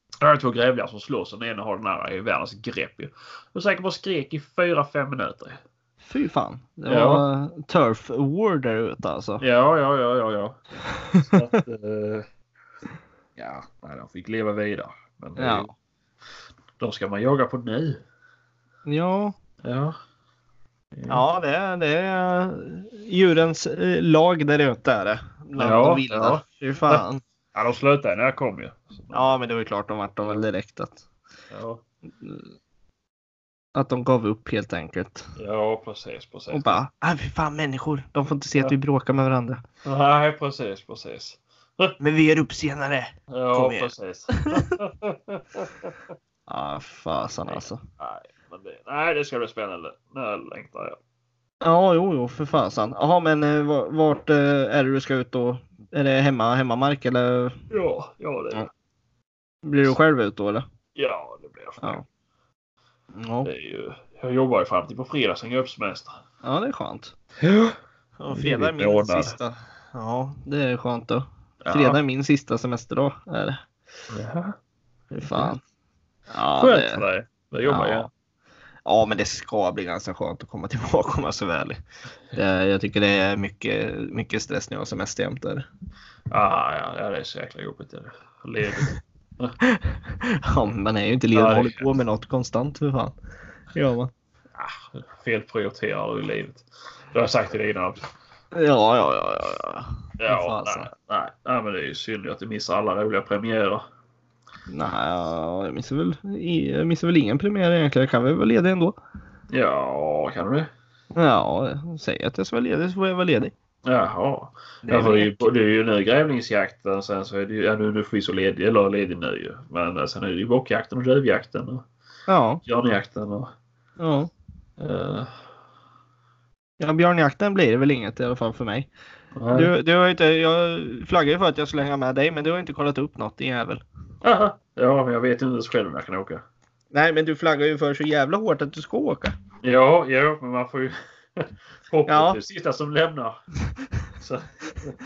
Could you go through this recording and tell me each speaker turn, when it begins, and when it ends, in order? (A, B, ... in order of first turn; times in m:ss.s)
0:00.2-0:05.6 A
0:06.0-0:09.4 B
0:06.9-0:07.2 A
0:09.4-0:10.6 A
0:11.0-0:11.4 B
0:11.2-0:12.3 A
0:13.4-0:15.7 A
0:15.4-0:15.7 B
0:16.8-0:18.0 A
0:18.9-0:19.4 B
0:19.6-0:20.0 A
0:21.0-0:21.2 A
0:21.1-0:27.2 B
0:25.6-0:27.0 A
0:27.5-0:29.4 A
0:29.1-0:31.0 B
0:31.5-0:31.8 A
0:32.2-0:32.5 B
0:33.8-0:35.3 B
0:35.4-0:36.7 A
0:36.5-0:39.6 B
0:39.8-0:42.0 A
0:42.0-0:44.7 B
0:43.3-0:46.0 A
0:46.5-0:47.8 B
0:47.5-0:51.0 A
0:51.6-0:57.6 B
0:57.7-0:58.7 A
0:59.6-1:00.6 B
1:01.0-1:02.0 A
1:03.1-1:03.5 B
1:03.4-1:06.2 A
1:06.4-1:07.1 B
1:07.4-1:07.8 A
1:08.2-1:13.6 B
1:08.3-1:09.4 A
1:11.6-1:12.0 A
1:14.1-1:14.6 A
1:15.1-1:15.6 B
1:16.3-1:17.0 B
1:16.6-1:18.1 A
1:17.7-1:18.1 B
1:18.8-1:21.8 B
1:22.4-1:25.7 B
1:26.3-1:29.6 A
1:29.6-1:33.1 B
1:31.3-1:31.9 A
1:33.7-1:34.1 B
1:34.6-1:38.0 A
1:38.5-1:40.9 B
1:40.2-1:43.8 A
1:44.7-1:49.0 B
1:49.5-1:50.7 A
1:51.1-1:53.5 B
1:53.8-2:01.9 A
1:54.9-1:55.5 B
2:02.3-2:02.6 B
2:02.6-2:03.5 A
2:04.0-2:04.3 B
2:04.8-2:05.3 A
2:06.8-2:08.9 B
2:09.4-2:09.7 A
2:09.5-2:13.8 B
2:14.2-2:16.4 A
2:16.9-2:19.3 B
2:19.6-2:23.4 A
2:22.1-2:22.4 B
2:24.2-2:25.0 A